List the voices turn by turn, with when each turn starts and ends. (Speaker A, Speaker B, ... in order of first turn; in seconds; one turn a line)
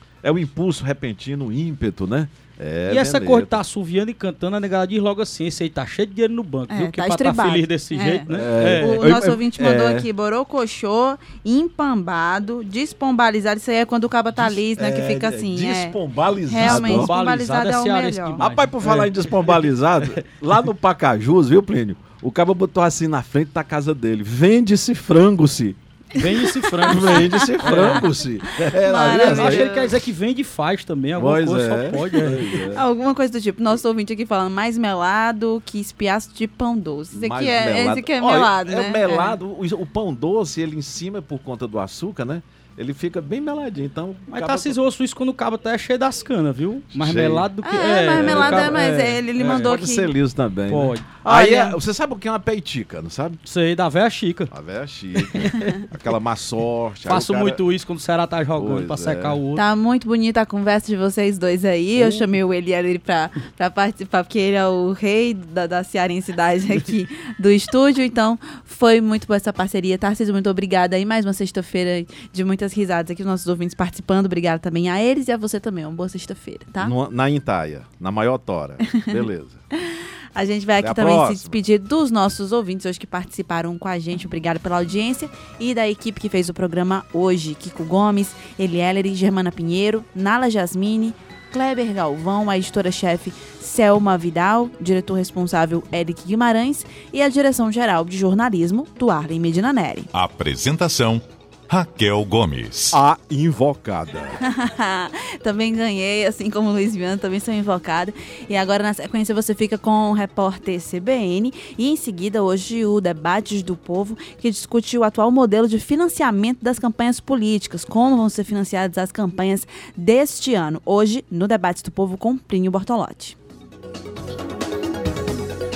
Speaker A: 0.2-3.6
Speaker B: 2.9-9.1
Speaker C: 6.7-18.4
Speaker A: 8.3-10.1
Speaker A: 14.3-17.1
Speaker B: 16.6-20.2
Speaker A: 18.4-25.8
Speaker B: 26.1-28.1
Speaker C: 26.7-27.9
Speaker A: 26.8-29.8
Speaker C: 28.5-29.9
Speaker B: 29.1-32.6
Speaker A: 31.1-32.8
Speaker C: 32.7-39.4
Speaker A: 37.1-44.7
Speaker B: 44.3-49.8
Speaker A: 46.9-47.5
Speaker C: 47.6-50.1
Speaker A: 48.1-48.8
Speaker A: 49.4-53.4
Speaker B: 50.7-51.1
Speaker C: 51.2-51.8
Speaker B: 53.4-54.5
Speaker A: 54.5-57.6
Speaker B: 55.1-55.9
Speaker B: 57.0-59.6
Speaker A: 58.5-59.4
Speaker C: 59.5-76.9
Speaker B: 62.0-62.3
Speaker A: 76.8-79.6
Speaker C: 78.8-79.2
Speaker C: 79.7-100.1
Speaker A: 80.8-81.6
Speaker D: 100.1-103.0
Speaker A: 102.9-104.4
Speaker C: 104.4-123.3